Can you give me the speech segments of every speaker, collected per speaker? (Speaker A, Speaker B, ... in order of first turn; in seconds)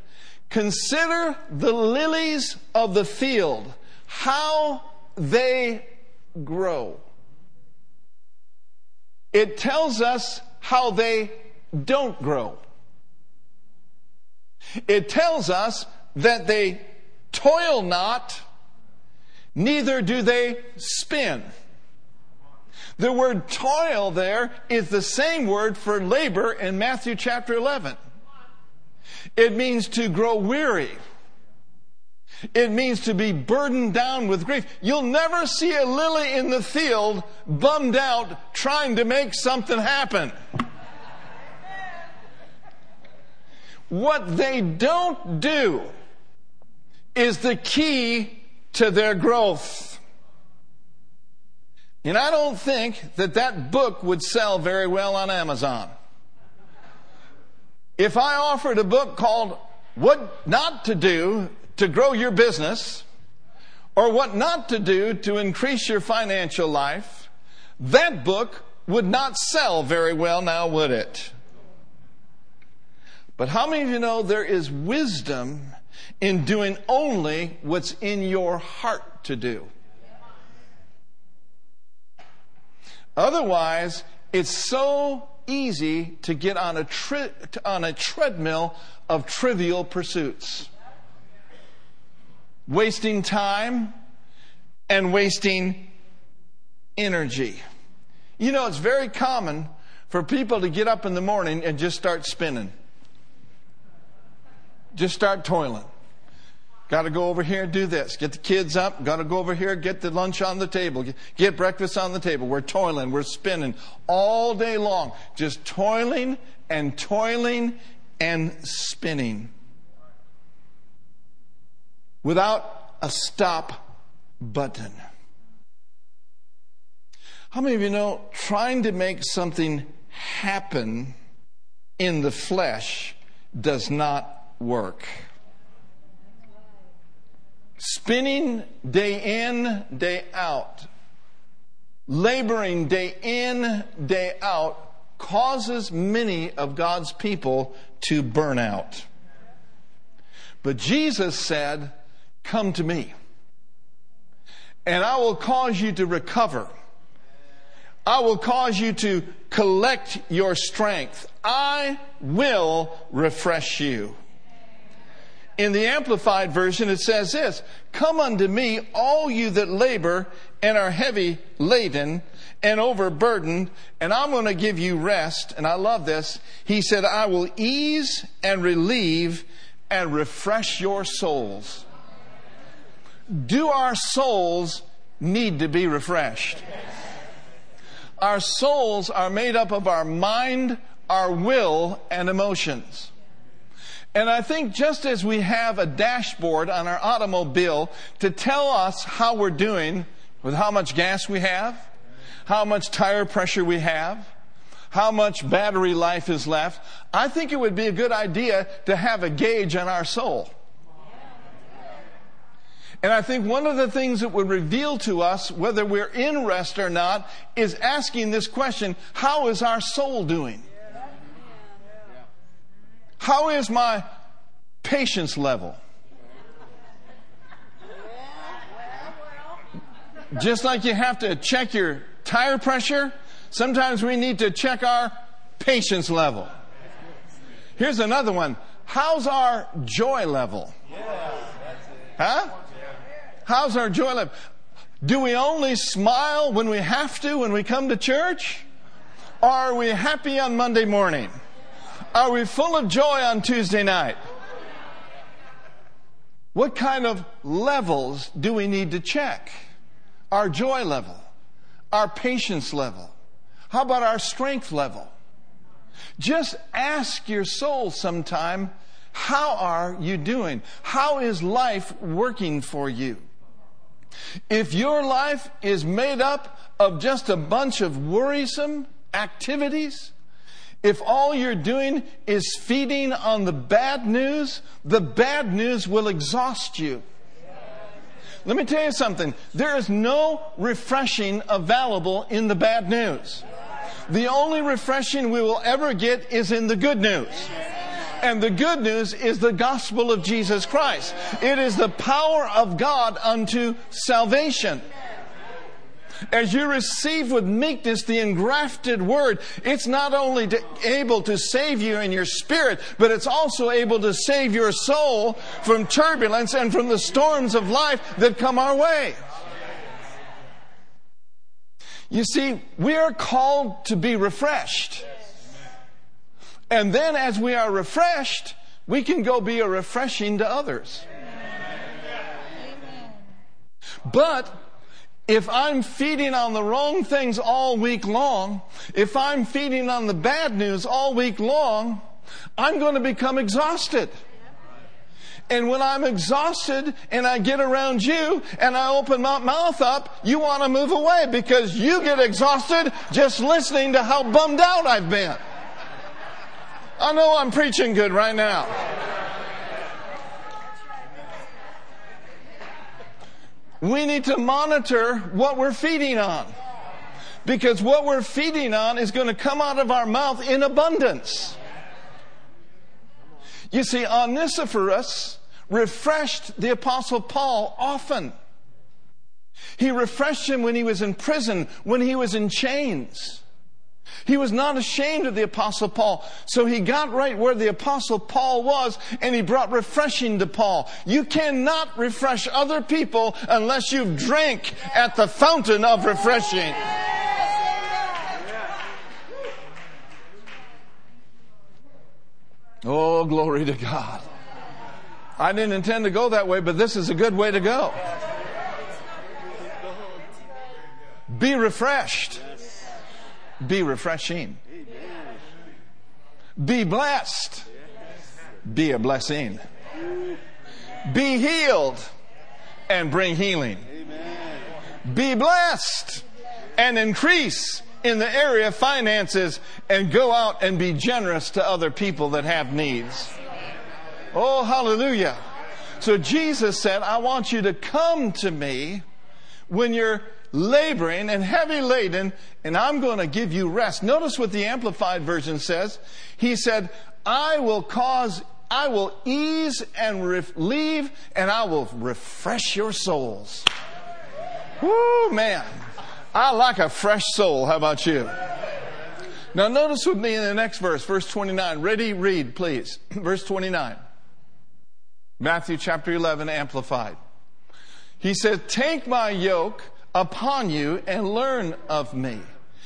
Speaker A: 0.5-7.0, 9.3-12.6, 14.8-18.4, 19.6-21.5, 23.0-28.0, 29.4-31.0, 32.5-40.3, 43.9-45.9, 47.1-50.0, 52.0-55.9, 58.0-63.1, 64.0-71.3, 73.4-79.7, 83.2-90.7, 92.7-93.9, 94.9-95.9, 97.0-97.6, 98.4-102.7, 104.9-105.9, 106.9-119.5, 122.2-123.8, 124.4-125.0, 127.5-131.2, 132.0-135.2, 137.8-140.9, 142.1-149.1, 150.6-153.1, 154.8-156.7, 158.1-164.2, 165.6-181.9, 183.3-186.6, 188.2-193.1, 194.1-201.9, 202.5-204.3, 204.9-210.5, 213.0-220.7, 223.2-224.1, 224.8-225.8, 230.3-236.5, 237.8-240.7, 242.2-242.5, 243.5-244.3, 245.0-248.7, 249.4-251.3, 252.1-254.2, 256.5-259.6, 260.3-261.2, 261.9-263.1, 263.7-265.1, 266.2-273.2, 274.5-280.1, 280.8-287.1, 288.4-293.4, 294.1-297.5, 298.2-304.8, 306.3-319.2, 322.1-325.1, 326.7-331.1, 334.1-334.6, 335.3-342.0, 342.6-344.1, 345.5-355.4, 357.0-358.7, 363.8-366.6, 367.4-371.6, 373.7-378.3, 379.8-383.4, 384.2-396.8, 402.8-404.2, 405.4-408.0, 411.3-412.4, 413.6-414.6, 416.6-417.7, 418.6-419.6, 421.1-422.1, 422.9-423.9, 425.1-426.2, 426.8-433.3, 434.3-435.4, 436.0-439.1, 439.7-453.7, 454.8-455.7, 456.3-458.3, 459.5-464.0, 465.4-467.2, 468.2-472.4